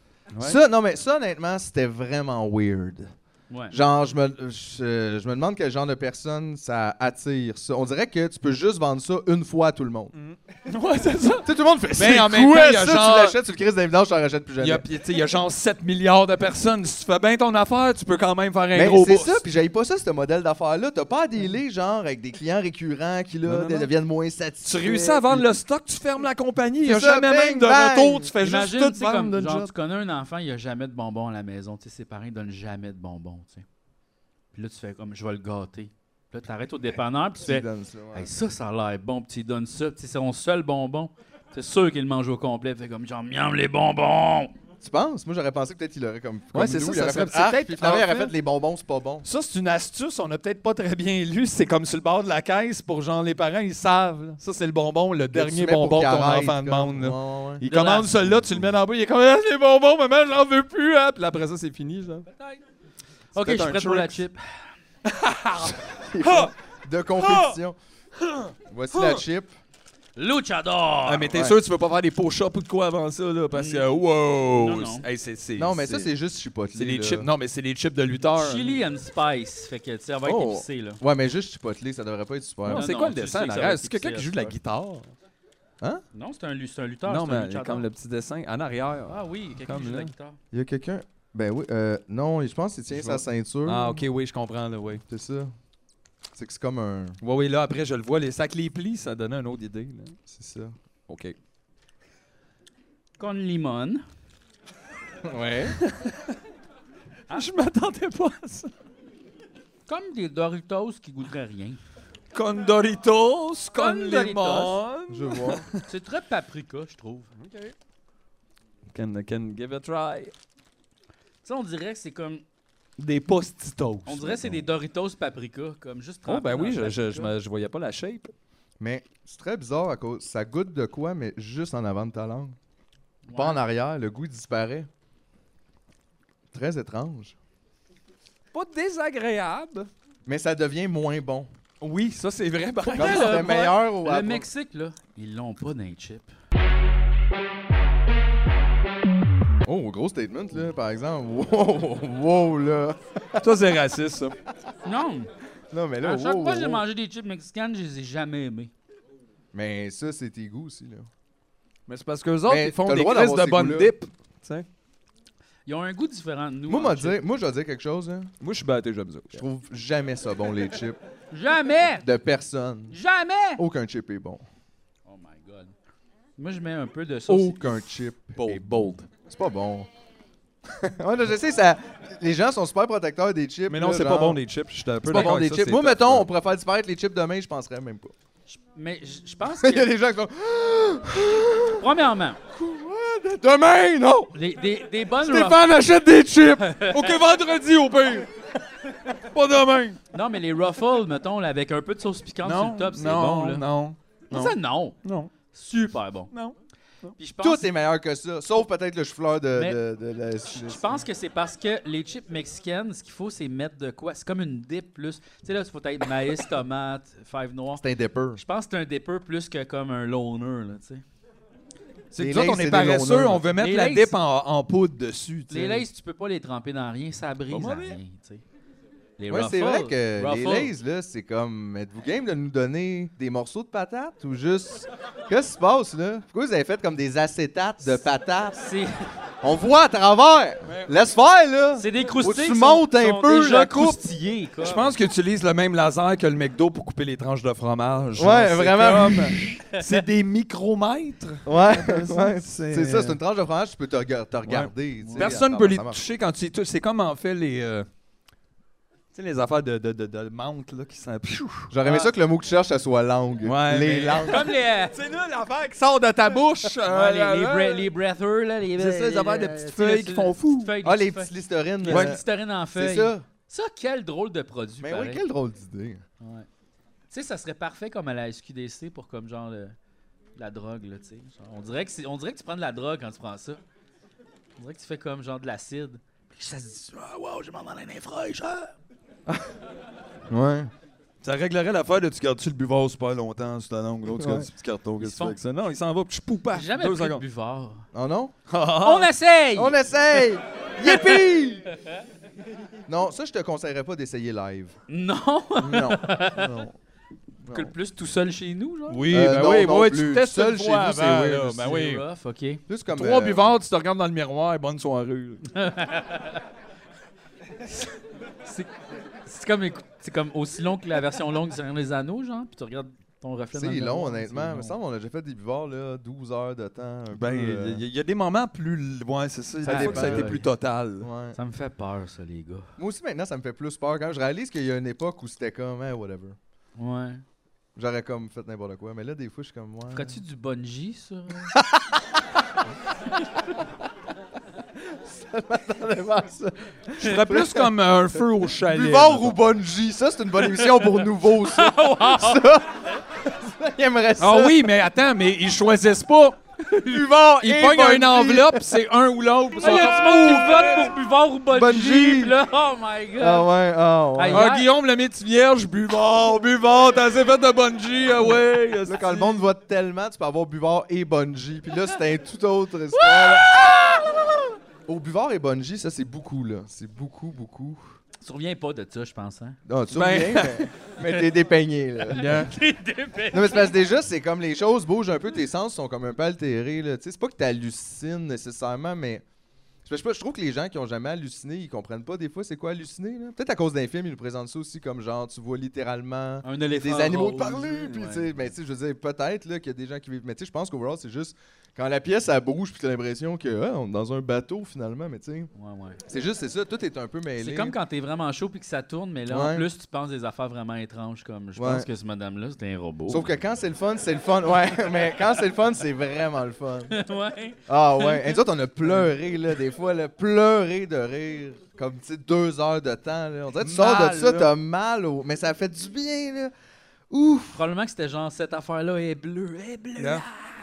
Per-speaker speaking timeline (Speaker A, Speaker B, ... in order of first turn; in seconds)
Speaker A: 0.4-3.1, 3.7-10.1, 11.4-14.8, 18.7-25.5, 26.8-28.3, 37.4-38.3, 44.8-49.3, 55.3-57.6, 58.1-58.7, 66.1-67.8, 68.7-69.5, 75.6-77.3, 80.2-82.9, 90.5-94.0, 95.1-95.5, 96.3-97.2, 100.3-100.8, 105.2-105.8, 115.1-115.7, 128.8-132.6, 133.3-134.9, 136.5-137.4, 140.3-141.5, 142.9-144.5, 149.7-153.5, 155.7-156.8, 159.5-161.1, 162.5-163.9, 166.7-168.3, 169.3-171.0, 172.0-173.0, 173.6-174.4, 177.3-179.9, 180.7-184.4, 185.1-188.1, 189.5-191.8, 192.5-194.3, 195.2-196.7, 207.4-211.0, 217.8-218.4, 222.2-223.4, 229.3-238.6, 239.4-244.0, 248.2-249.4, 251.4-256.0, 261.7-264.4, 270.8-272.2, 272.8-273.2, 274.8-276.0, 289.3-289.5, 290.3-290.7, 294.1-294.5, 297.9-298.3, 299.5-301.6, 302.9-304.8, 305.6-306.7, 307.4-307.7, 309.1-311.6, 312.7-313.5, 323.5-327.8, 329.6-330.5, 331.0-331.4, 332.8-336.4, 337.8-340.2, 341.5-342.4, 344.9-347.7, 348.6-354.7, 356.8-358.8, 361.5-362.3, 363.2-364.5, 368.9-373.7, 374.9-377.8, 379.7-382.4, 383.3-389.2, 389.9-405.5, 406.1-407.8, 409.3-409.7, 411.6-411.9, 413.1-416.9, 417.7-426.5, 427.1-427.6
Speaker B: 3.5-3.8, 28.4-33.6, 34.5-44.5, 57.6-58.1, 62.3-62.6, 63.3-64.4, 70.2-71.3, 73.5-73.9, 74.5-75.0, 78.4-81.0, 82.7-84.5, 86.1-87.9, 89.1-90.4, 103.2-104.0, 109.9-111.8, 113.8-114.8, 115.8-117.3, 121.4-122.4, 124.1-127.3, 133.2-133.6, 142.9-146.3, 154.8-155.3, 156.0-158.7, 165.7-167.2, 171.3-172.1, 172.9-173.6, 175.1-175.7, 176.4-177.7, 188.5-189.9, 191.7-192.4, 194.3-195.7, 196.6-197.1, 200.1-203.6, 204.3-205.0, 205.5-206.3, 207.2-207.7, 209.6-209.8, 210.4-217.8, 218.4-221.0, 223.6-224.1, 225.5-228.4, 229.2-230.7, 238.6-238.9, 241.8-244.9, 255.0-255.4, 264.3-264.9, 266.9-275.2, 276.2-276.5, 277.1-279.8, 280.4-283.6, 284.6-288.7, 295.0-295.4, 296.5-297.9, 298.8-299.8, 300.8-301.2, 304.9-306.5, 307.5-309.1, 311.6-312.6, 315.5-316.4, 318.4-318.7, 319.2-324.8, 329.7-330.5, 331.3-332.7, 336.8-337.2, 339.9-341.6, 350.6-352.4, 356.7-357.0, 359.6-363.5, 364.1-364.7, 372.9-374.0, 378.2-379.6, 382.1-383.8, 396.4-398.4, 405.6-406.0, 407.4-413.3, 416.9-418.4, 427.5-430.3
Speaker C: 10.1-13.4, 14.6-19.4, 23.5-23.9, 24.6-29.7, 46.5-48.3, 49.2-62.3, 63.4-64.2, 65.1-66.5, 67.2-67.6, 68.2-69.2, 71.1-76.1, 76.8-78.8, 82.7-85.1, 87.1-90.1, 92.9-95.0, 97.2-100.2, 101.1-101.3, 105.8-106.3, 107.3-108.7, 112.3-115.8, 117.4-117.7, 118.9-120.3, 123.0-124.6, 126.3-128.3, 138.5-139.9, 141.8-143.5, 153.4-154.3, 161.9-164.7, 168.4-169.4, 178.4-179.1, 183.7-186.3, 196.9-198.3, 199.1-200.0, 202.4-205.3, 206.3-207.1, 222.1-225.8, 227.5-228.0, 244.6-253.2, 254.5-257.9, 259.1-261.7, 263.4-267.9, 268.8-270.7, 271.9-272.2, 291.2-297.2, 298.5-299.1, 308.9-312.0, 312.9-315.4, 327.1-331.1, 347.0-349.4, 354.2-356.4, 357.4-360.9, 364.3-369.4, 379.9-380.7, 382.1-382.5, 423.6-424.5